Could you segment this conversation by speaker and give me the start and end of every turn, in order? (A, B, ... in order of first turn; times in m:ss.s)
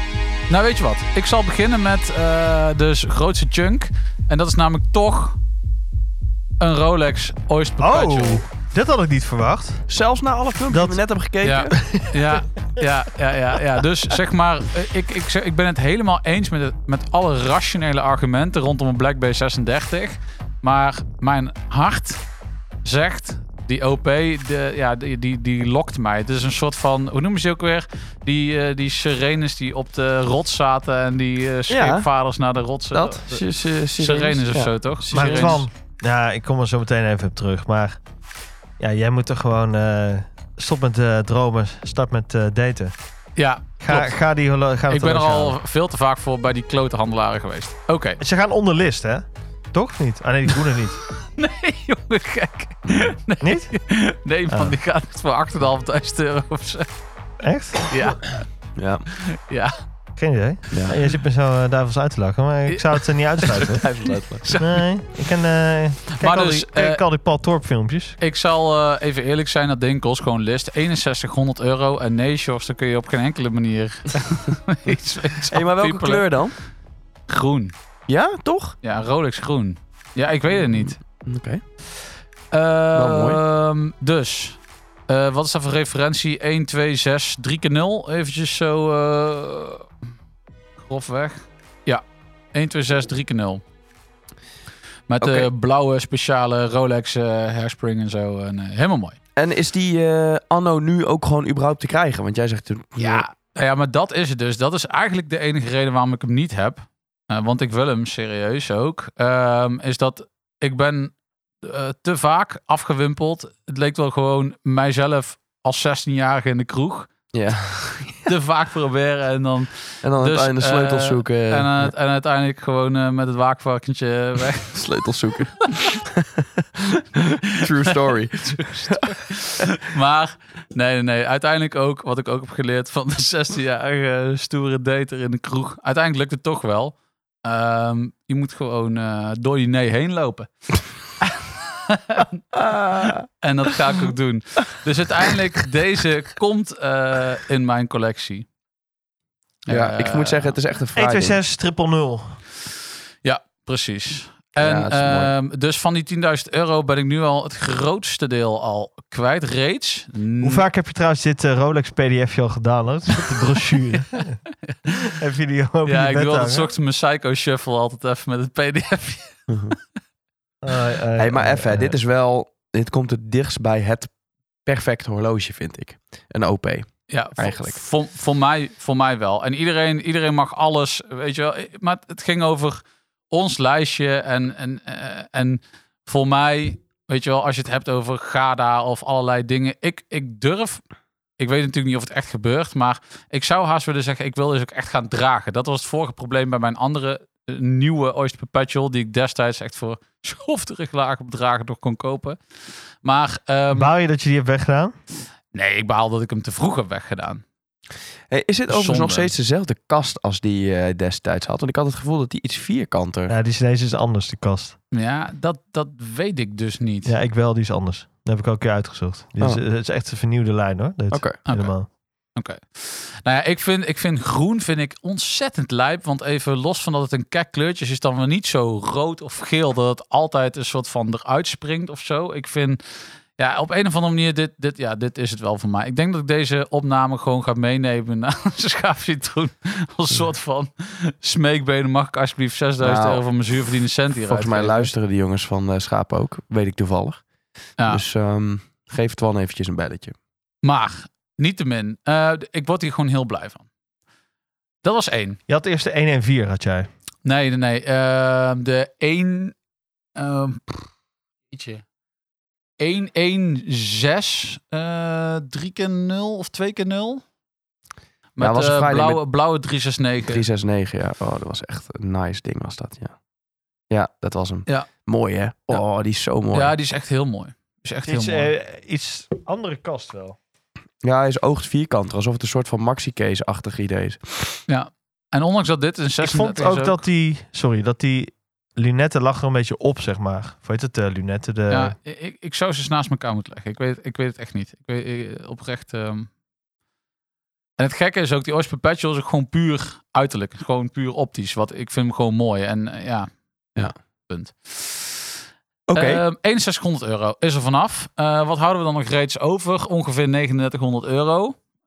0:00.5-0:05.4 A
0:06.6-0:08.4 A
0:07.8-0:09.9 B
0:09.9-0:11.8 C
0:10.7-0:11.0 B
0:11.4-0:22.2 A
0:11.8-0:12.1 B
0:22.8-0:33.4 A
0:31.7-0:32.1 C
0:32.9-0:35.6 C
0:34.0-0:35.6 A
0:35.1-0:38.0 B
0:38.8-0:42.9 B
0:43.4-0:44.2 A
0:43.8-0:45.6 B
0:44.9-0:48.2 A
0:48.2-0:51.0 B
0:51.2-0:56.9 A
0:52.9-0:53.1 C
0:53.4-0:53.7 B
0:54.5-0:54.8 B
0:57.4-0:57.9 B
0:57.9-0:58.4 A
0:58.8-0:59.0 C
0:59.2-0:59.7 A
1:00.2-1:03.8 B
1:00.7-1:01.0 C
1:02.7-1:03.8 A
1:03.6-1:04.4 C
1:04.4-1:04.8 A
1:04.6-1:08.2 B
1:06.1-1:07.0 A
1:08.2-1:16.4 A
1:15.5-1:16.6 C
1:17.3-1:17.7 A
1:18.1-1:18.8 C
1:18.8-1:21.0 A
1:20.5-1:21.6 C
1:22.5-1:29.9 A
1:22.9-1:23.4 C
1:30.8-1:32.0 A
1:32.5-1:33.6 A
1:35.1-1:39.2 A
1:35.2-1:35.5 C
1:39.4-1:43.2 C
1:43.0-1:57.1 A
1:57.3-1:58.3 C
1:58.2-2:04.8 A
2:00.0-2:01.9 C
2:04.7-2:09.1 C
2:08.4-2:20.5 A
2:21.2-2:22.4 A
2:22.6-2:23.2 C
2:23.4-2:28.5 A
2:29.7-2:30.6 A
2:29.7-2:31.4 C
2:30.9-2:32.4 B
2:33.2-2:40.6 A
2:34.6-2:35.3 C
2:40.4-2:44.4 B
2:45.0-2:46.7 B
2:45.8-2:49.4 A
2:49.5-2:49.8 C
2:50.6-2:52.0 B
2:51.2-2:54.1 C
2:54.6-2:57.8 C
2:57.1-3:10.8 A
3:11.4-3:22.4 A
3:23.0-3:23.9 A
3:23.7-3:24.9 B
3:25.5-3:27.4 A
3:28.3-3:33.3 C
3:28.7-3:29.3 A
3:33.3-3:34.8 B
3:34.9-3:37.1 A
3:37.0-3:41.9 B
3:41.1-3:41.4 C
3:41.4-3:41.7 A
3:42.3-3:52.8 A
3:53.4-4:04.9 A
4:02.8-4:03.2 C
4:04.2-4:10.1 C
4:07.8-4:08.0 A
4:10.6-4:13.6 A
4:14.8-4:15.4 A
4:15.5-4:16.9 B
4:17.2-4:19.6 A
4:20.2-4:20.8 A
4:21.5-4:21.8 A
4:22.8-4:27.2 A
4:28.4-4:30.4 A
4:28.4-4:29.2 C
4:30.2-4:33.2 C
4:33.9-4:36.7 C
4:36.5-4:38.5 A
4:38.0-4:40.4 B
4:41.0-4:44.6 C
4:44.7-4:47.0 A
4:46.2-4:51.9 B
4:51.7-4:56.3 A
4:57.8-5:05.2 A
5:05.9-5:06.2 B
5:05.9-5:11.6 A